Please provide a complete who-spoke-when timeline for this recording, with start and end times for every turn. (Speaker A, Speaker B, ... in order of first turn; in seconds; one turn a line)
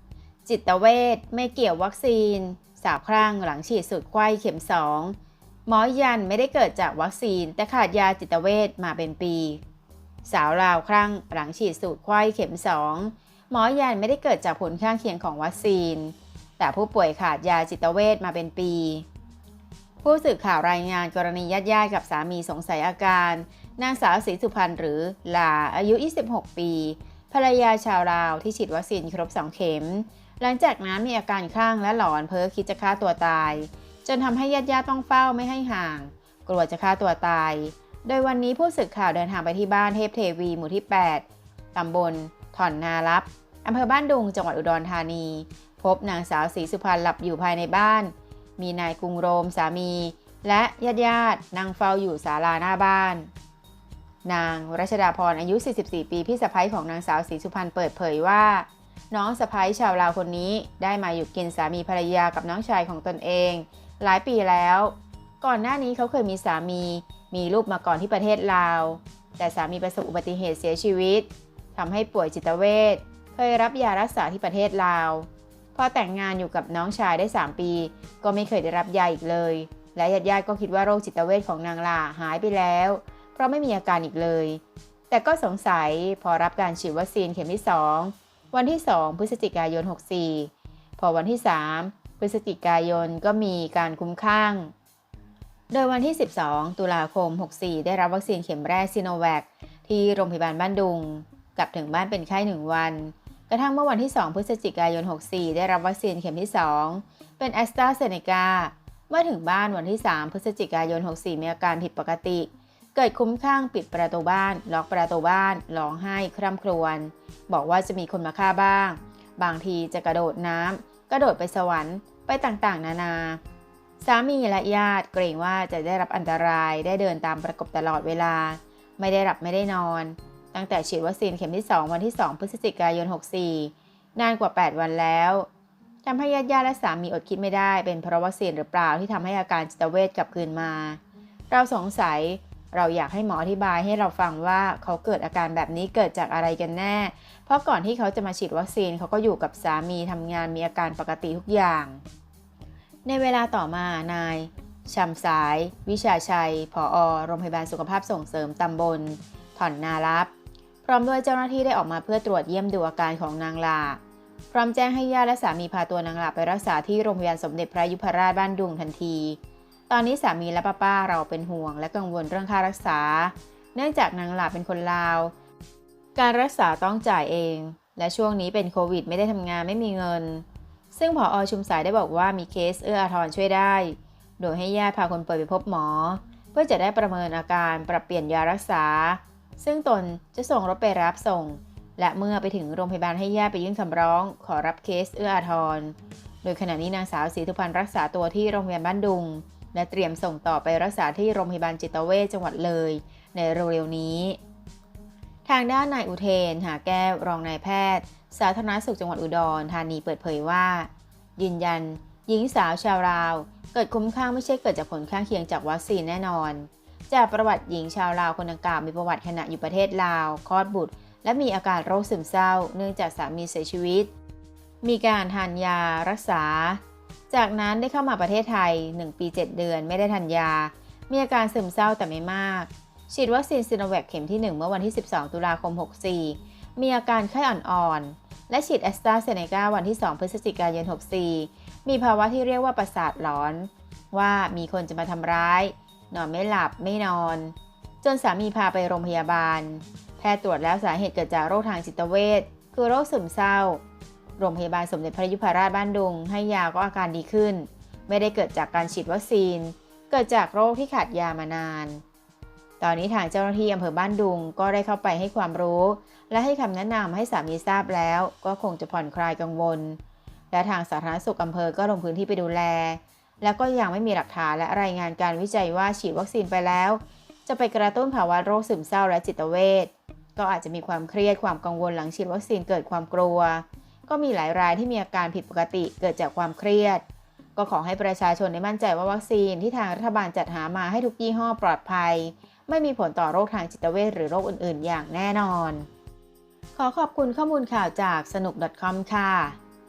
Speaker A: 0.5-5.2
Speaker A: 5.7-9.6
Speaker A: 10.2-19.0
Speaker A: 20.0-53.3
Speaker A: 54.2-94.7
Speaker A: 95.7-123.4
Speaker A: 124.0-135.5
Speaker A: 136.0-152.0
Speaker A: 153.0-160.3
Speaker A: 160.8-164.0
Speaker A: 164.5-169.4
Speaker A: 169.9-175.3
Speaker A: 176.2-204.4
Speaker A: 205.4-224.1
Speaker A: 224.8-253.8
Speaker A: 254.4-262.0
Speaker A: 262.8-270.0
Speaker A: 270.5-287.0
Speaker A: 287.6-295.9
Speaker A: 296.8-299.6